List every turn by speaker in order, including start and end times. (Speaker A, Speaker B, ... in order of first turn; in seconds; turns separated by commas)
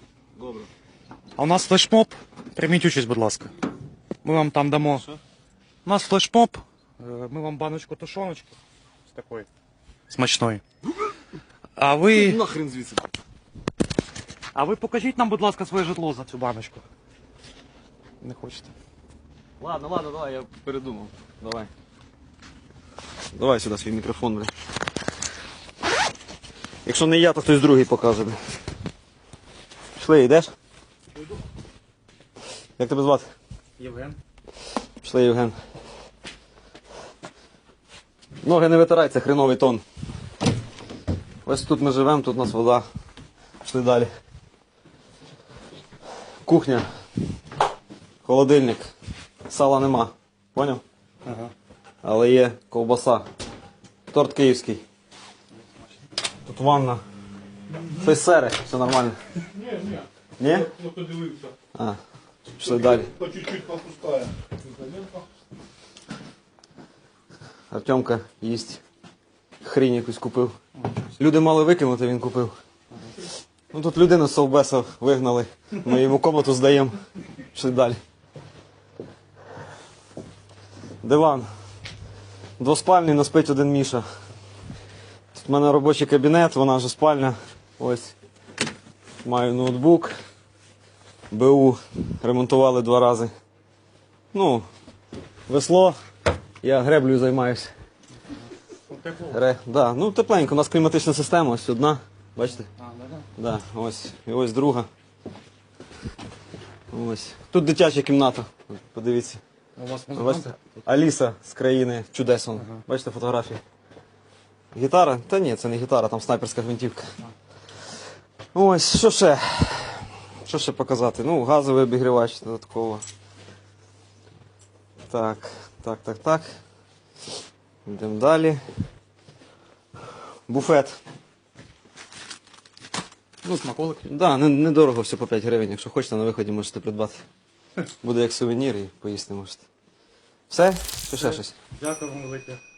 Speaker A: 1.4-3.5, Speaker A: 4.2-5.1, Speaker A: 5.8-8.6, Speaker A: 9.1-9.5, Speaker A: 10.1-10.6, Speaker A: 11.8-12.4, Speaker B: 12.1-13.1, Speaker A: 14.6-16.8, Speaker A: 18.2-18.7, Speaker B: 19.6-21.7, Speaker B: 23.3-24.5, Speaker B: 26.9-28.4, Speaker B: 30.0-30.5, Speaker B: 32.8-33.3, Speaker A: 33.8-34.2, Speaker B: 35.0-35.5, Speaker B: 38.4-39.8, Speaker B: 41.5-42.9, Speaker B: 43.6-44.1, Speaker B: 46.5-46.9, Speaker B: 48.2-48.9, Speaker B: 49.5-50.8, Speaker A: 51.2-51.5, Speaker B: 52.0-53.2, Speaker B: 54.1-54.8, Speaker B: 56.5-57.0, Speaker B: 57.9-59.2, Speaker C: 59.6-60.0, Speaker A: 59.7-60.0, Speaker B: 60.4-60.7, Speaker A: 60.8-61.5, Speaker B: 62.6-63.1, Speaker C: 62.7-65.2, Speaker B: 67.7-68.8, Speaker B: 69.6-70.6, Speaker B: 71.2-72.5, Speaker B: 73.7-77.0, Speaker B: 77.5-78.0, Speaker B: 81.0-81.5, Speaker B: 82.6-84.0, Speaker B: 85.3-88.2, Speaker B: 89.2-90.1, Speaker B: 91.3-93.3, Speaker B: 94.3-94.7, Speaker B: 95.5-96.0, Speaker B: 96.6-97.7, Speaker A: 98.9-99.4, Speaker B: 99.2-102.7, Speaker A: 102.8-103.3, Speaker B: 103.4-104.9, Speaker B: 106.9-109.4, Speaker A: 109.8-110.5, Speaker B: 110.2-113.6, Speaker B: 114.7-117.1, Speaker B: 118.5-123.0, Speaker B: 125.1-126.5, Speaker B: 127.9-128.6, Speaker B: 130.5-131.0, Speaker A: 133.4-134.1, Speaker B: 134.1-137.2, Speaker B: 138.0-139.6, Speaker B: 140.5-141.5, Speaker A: 141.2-142.6